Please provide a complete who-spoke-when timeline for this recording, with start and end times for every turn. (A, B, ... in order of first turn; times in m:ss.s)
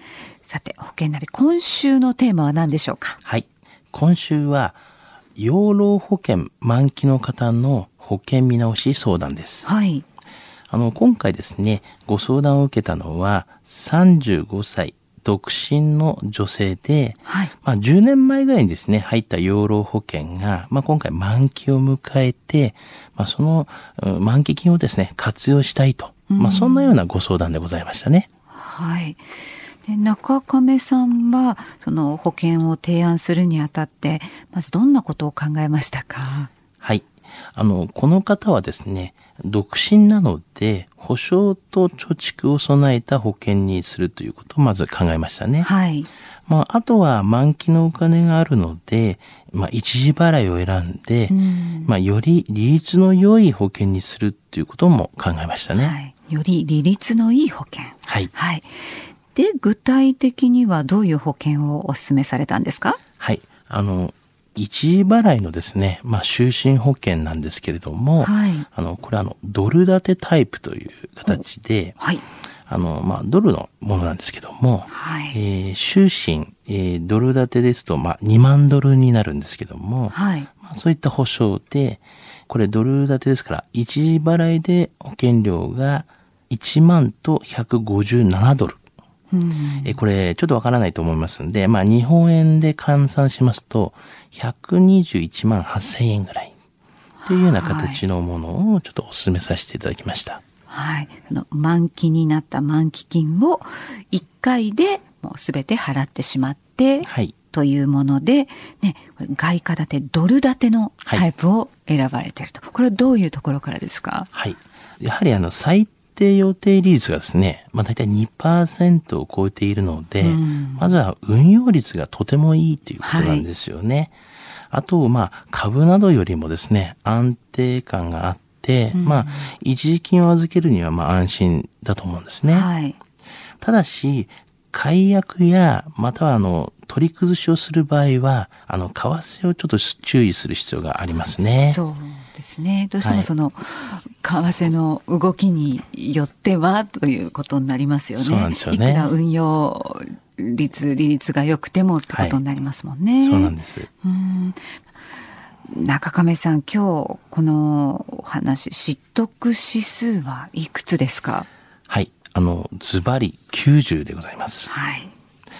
0:00.4-0:03.2 A
0:03.2-0:04.8 B
0:05.4-0:09.7 B
0:09.6-0:10.0 A
0:10.7-0:28.3 B
0:17.2-0:17.5 A
0:26.3-0:26.9 A
0:28.5-0:29.2 A
0:29.8-0:36.5 A
0:36.8-0:45.7 B
0:45.6-0:46.1 A
0:46.5-0:55.9 B
0:51.3-0:51.9 A
0:55.7-0:58.7 A
0:58.0-0:58.3 B
0:59.3-1:03.0 A
1:03.2-1:12.0 B
1:08.2-1:08.6 A
1:12.0-1:12.2 A
1:12.7-1:28.8 B
1:14.9-1:15.4 A
1:20.1-1:20.5 A
1:29.3-1:30.0 A
1:29.8-1:36.5 B
1:37.2-1:38.0 A
1:37.3-1:40.4 B
1:40.7-1:54.3 A
1:47.0-1:47.3 B
1:54.3-2:04.1 B
2:00.2-2:00.9 A
2:03.0-2:03.4 A
2:04.7-2:12.7 B
2:08.9-2:09.5 A
2:12.5-2:13.0 A
2:13.6-2:21.8 B
2:21.4-2:34.6 A
2:23.0-2:23.3 B
2:28.2-2:29.1 B
2:32.1-2:32.4 B
2:33.2-2:33.9 B
2:35.7-2:41.5 A
2:41.9-2:44.7 B
2:44.7-2:45.1 A